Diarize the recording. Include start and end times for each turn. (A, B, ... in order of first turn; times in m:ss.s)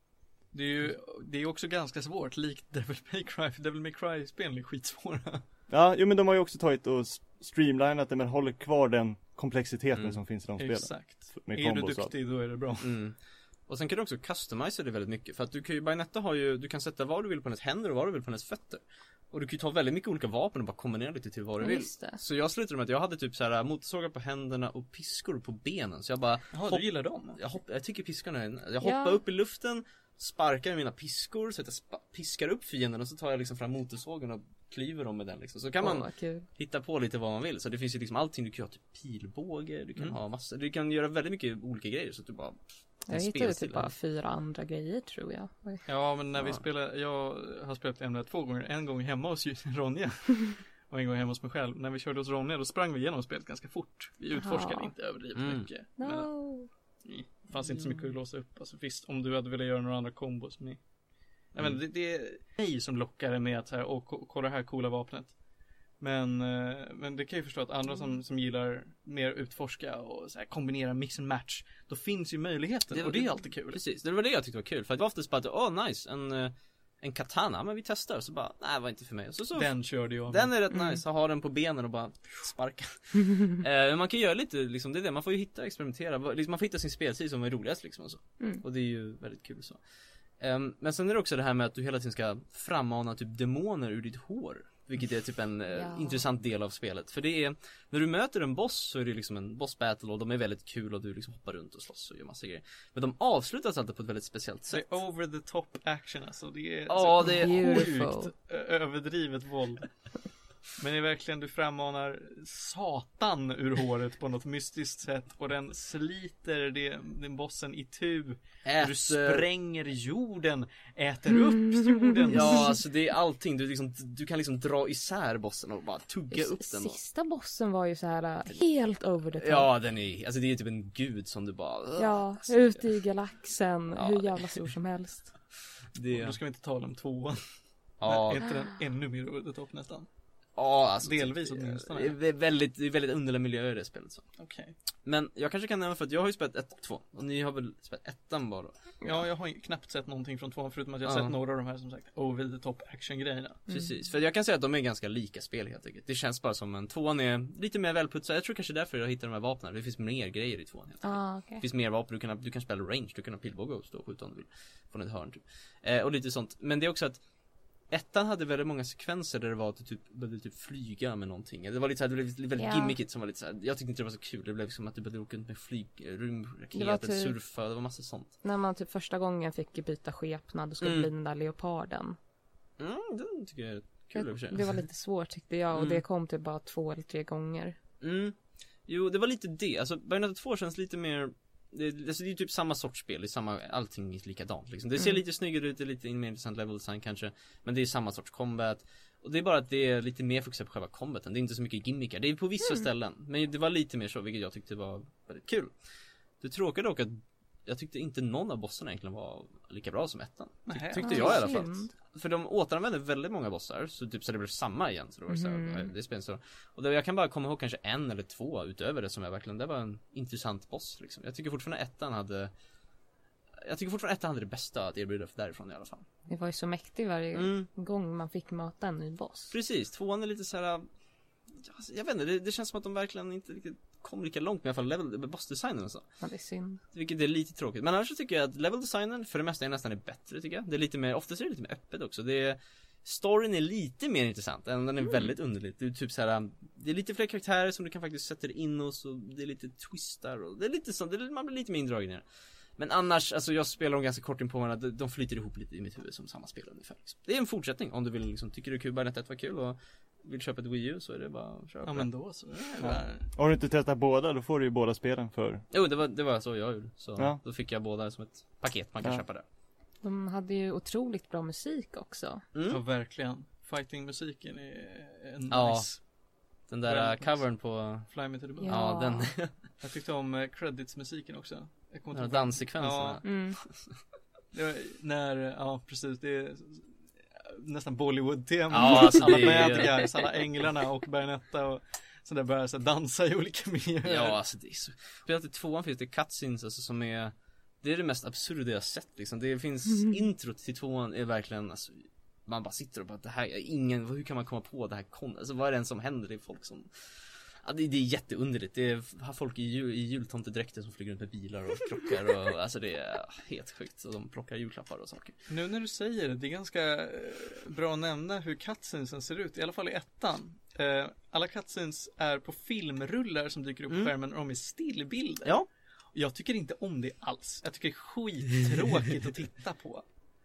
0:00.5-0:05.4 A
0:05.7-0:12.1 B
0:10.6-0:12.9 A
0:12.8-0:43.9 C
0:21.6-0:22.2 D
0:26.5-0:27.4 A
0:28.8-0:29.2 D
0:35.8-0:36.5 D
0:43.1-0:45.9 D
0:45.8-1:05.4 A
0:54.4-0:55.0 D
0:55.4-0:55.7 C
0:56.0-0:56.7 D
0:57.6-0:58.1 D
1:06.0-1:13.8 A
1:12.9-1:29.8 C
1:19.6-1:20.5 A
1:20.7-1:21.0 D
1:30.4-1:44.9 C
1:35.7-1:36.2 D
1:44.7-1:50.1 A
1:46.9-1:47.9 C
1:47.2-1:48.3 D
1:50.7-2:02.7 A
1:58.6-1:59.5 C
2:02.3-2:07.0 C
2:06.3-2:09.7 D
2:08.5-2:13.0 C
2:12.0-2:15.3 D
2:14.0-2:14.6 C
2:15.9-2:16.4 C
2:16.1-2:20.1 A
2:18.0-2:18.4 C
2:20.6-2:24.3 C
2:21.0-2:22.2 A
2:24.4-2:24.8 A
2:25.1-2:29.2 C
2:29.0-2:33.6 A
2:31.0-2:31.4 C
2:33.7-2:47.3 C
2:41.0-2:41.6 D
2:47.9-2:58.3 C
2:52.6-2:53.0 D
2:56.7-2:57.4 D
2:58.4-3:02.2 D
3:00.8-3:01.1 C
3:02.8-3:04.8 C
3:04.1-3:07.8 D
3:05.7-3:06.0 C
3:08.0-3:25.7 C
3:26.4-3:42.5 C
3:30.7-3:31.7 A
3:31.0-3:31.9 D
3:35.3-3:35.9 D
3:43.6-3:46.1 C
3:46.3-3:49.6 D
3:47.3-3:47.7 C
3:49.5-3:50.9 C
3:51.5-3:56.2 C
3:56.2-3:56.8 D
3:56.9-4:22.4 C
4:21.8-4:23.3 A
4:22.8-4:25.6 B
4:25.7-4:29.4 C
4:30.0-4:32.4 D
4:32.5-4:32.8 C
4:32.7-4:36.1 A
4:35.5-4:36.1 C
4:36.7-4:39.6 C
4:36.8-4:38.8 A
4:38.6-4:39.4 D
4:39.8-4:43.3 A
4:42.1-4:44.0 C
4:43.2-4:43.6 D
4:44.5-4:54.4 A
4:48.7-4:50.4 C
4:54.0-5:15.4 C
5:15.5-5:25.6 A
5:23.9-5:24.1 C
5:26.1-5:30.1 A